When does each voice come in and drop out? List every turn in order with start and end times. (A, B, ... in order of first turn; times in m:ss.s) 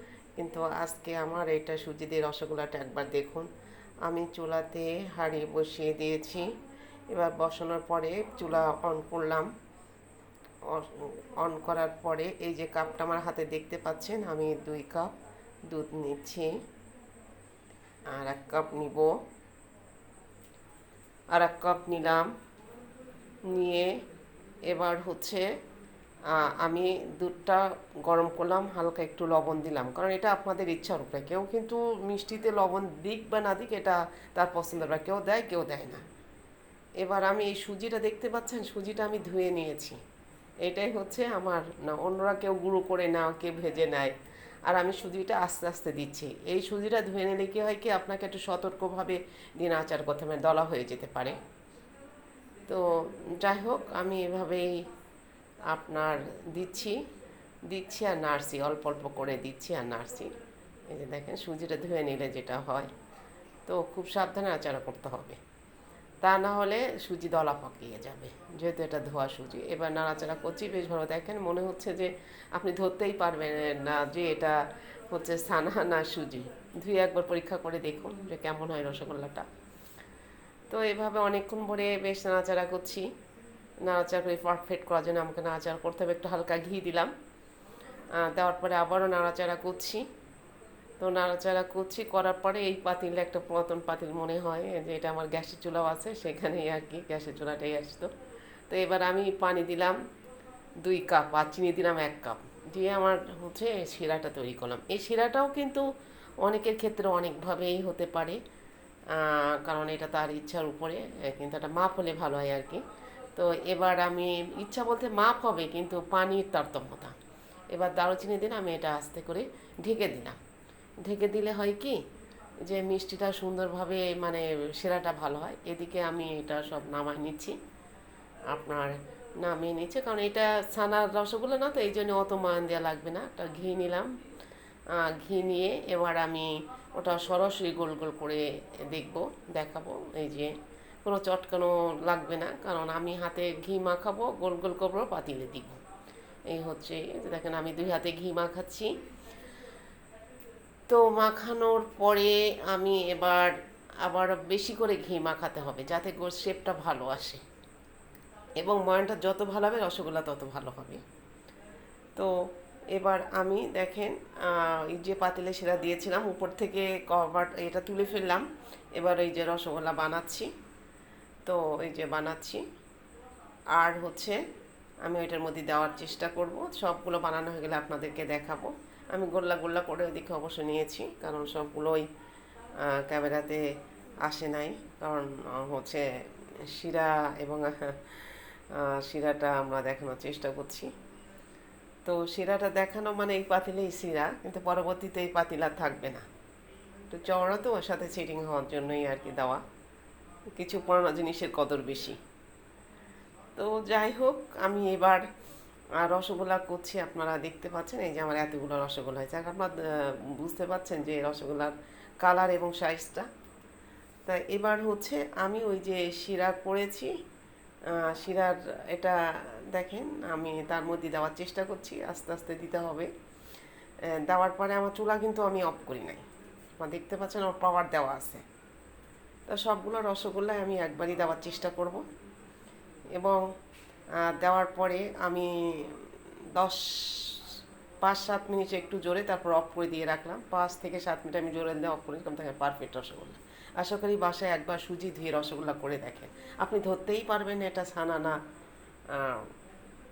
0:00.4-0:03.5 A
0:04.0-0:06.5 A
0:07.1-0:09.5 A
0:10.6-0:15.1 A
0:15.7-0:16.5 A
0:18.1-0:19.1 A
0:21.3-0:22.3 A
0:23.5-0:23.9 A
0:24.7-0:25.5 A
0:26.3-0:36.0 A
0:37.0-0:40.0 A
0:40.6-0:44.1 A
0:44.7-0:51.4 A
0:52.7-0:54.8 A
0:55.7-0:57.0 A
0:57.7-1:00.3 A
1:00.9-1:02.9 A
1:03.7-1:05.4 A
1:06.2-1:19.5 A
1:20.7-1:23.1 A
1:23.8-1:27.1 A
1:28.1-1:30.0 A
1:31.0-1:38.1 A
1:38.7-1:40.0 A
1:40.8-1:45.8 A
1:46.4-1:48.4 A
1:49.1-1:52.8 A
1:53.3-1:57.1 A
1:57.7-2:00.4 A
2:01.0-2:02.0 A
2:02.6-2:07.6 A
2:08.5-2:14.1 A
2:14.9-2:25.8 A
2:26.5-2:29.0 A
2:30.9-2:37.4 A
2:38.6-2:41.0 A
2:42.9-2:50.5 A
2:51.4-2:52.6 A
2:53.7-2:54.4 A
2:55.0-3:02.0 A
3:02.8-3:03.7 A
3:04.2-3:10.9 A
3:12.0-3:16.2 A
3:17.1-3:19.6 A
3:20.6-3:22.2 A
3:23.6-3:25.2 A
3:26.0-3:33.3 A
3:34.2-3:37.1 A
3:37.9-3:39.2 A
3:39.7-3:43.1 A
3:44.1-3:46.2 A
3:46.8-3:48.4 A
3:49.5-3:52.0 A
3:53.2-3:53.4 A
3:54.2-4:08.4 A
4:09.1-4:09.5 A